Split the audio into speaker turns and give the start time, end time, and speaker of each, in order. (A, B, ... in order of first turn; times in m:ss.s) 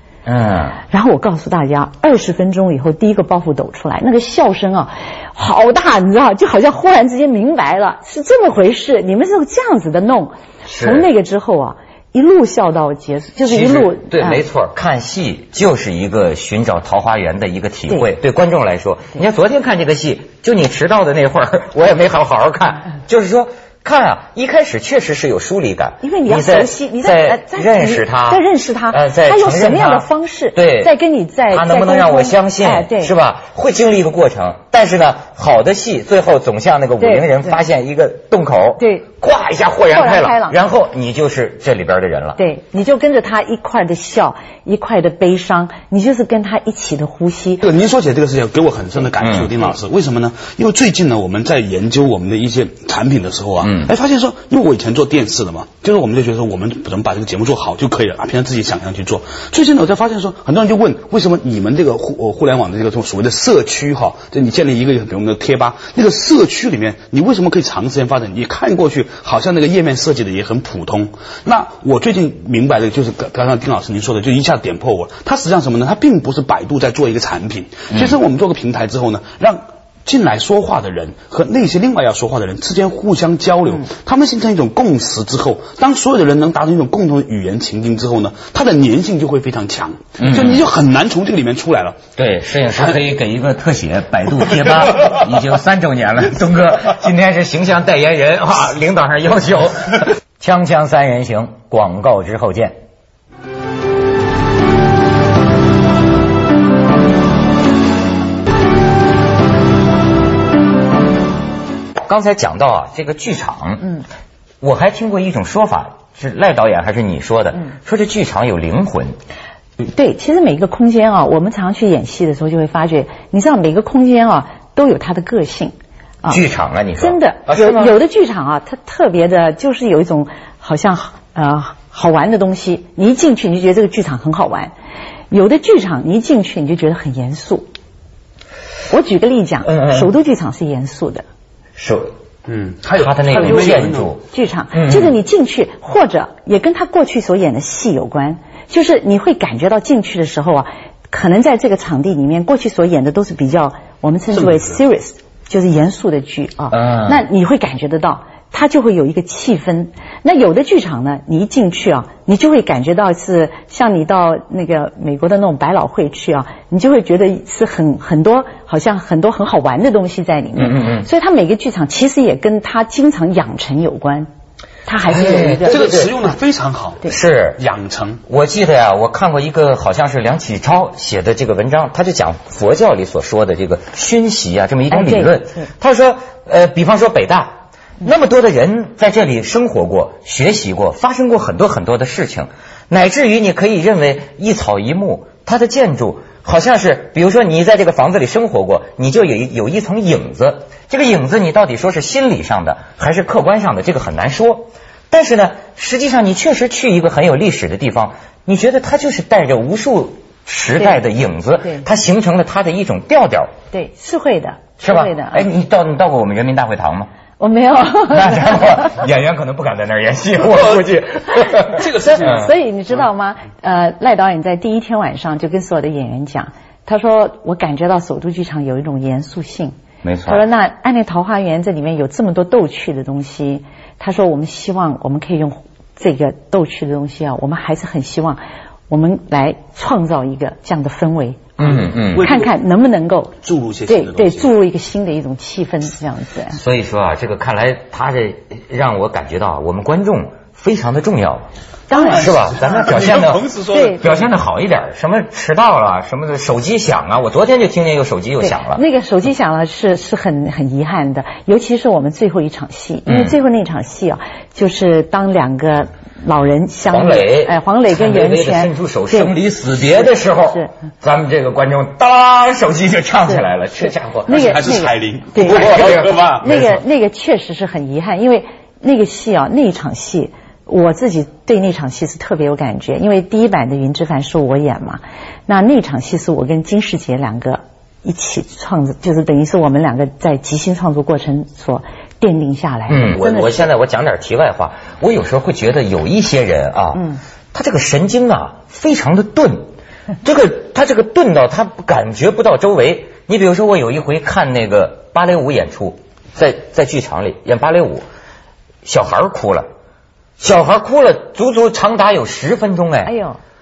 0:00.2-0:00.8 A
0:00.9-0:14.4 B
0:10.7-0:11.1 A
0:13.4-0:30.9 A
0:26.0-0:33.1 B
0:31.5-0:42.4 A
0:37.0-0:37.6 B
0:38.8-0:39.1 B
0:39.9-0:40.6 B
0:42.4-0:47.6 B
0:47.6-1:32.0 C
0:49.2-0:49.5 A
1:30.2-1:30.6 A
1:32.2-1:42.8 A
1:52.0-1:54.0 A
1:54.6-1:59.2 A
1:59.8-2:06.4 B
2:06.3-2:08.0 A
2:07.0-2:14.7 B
2:15.3-2:17.7 B
2:18.9-2:21.2 B
2:19.6-2:20.1 A
2:21.8-2:22.1 A
2:22.5-2:24.1 C
2:23.0-2:25.1 A
2:23.4-2:23.8 B
2:24.3-2:54.3 B
2:36.7-2:37.2 A
2:50.6-2:51.1 A
2:54.8-2:55.8 B
2:55.1-2:56.1 A
2:55.6-2:58.2 C
2:57.0-2:57.6 A
2:58.3-3:33.5 A
3:04.9-3:05.7 B
3:33.7-3:35.4 B
3:34.8-3:37.1 A
3:37.4-3:38.9 B
3:38.0-3:42.4 A
3:41.6-3:42.5 C
3:42.0-4:01.6 B
3:50.0-3:50.4 A
4:01.6-4:02.3 A
4:01.6-4:02.5 C
4:02.2-4:03.4 B
4:03.4-4:04.5 C
4:03.9-4:06.6 B
4:06.5-4:13.4 A
4:11.9-4:12.3 B
4:11.9-4:14.3 C
4:13.7-4:14.0 B
4:14.0-4:18.8 A
4:18.4-4:30.7 B
4:23.1-4:23.4 A
4:26.9-4:34.6 A
4:34.3-4:53.6 B
4:34.3-4:36.7 C
4:35.4-4:36.6 A
4:52.9-4:59.7 A
5:00.2-5:08.0 A
5:08.8-5:09.7 A
5:10.4-5:13.1 A
5:13.0-5:13.4 B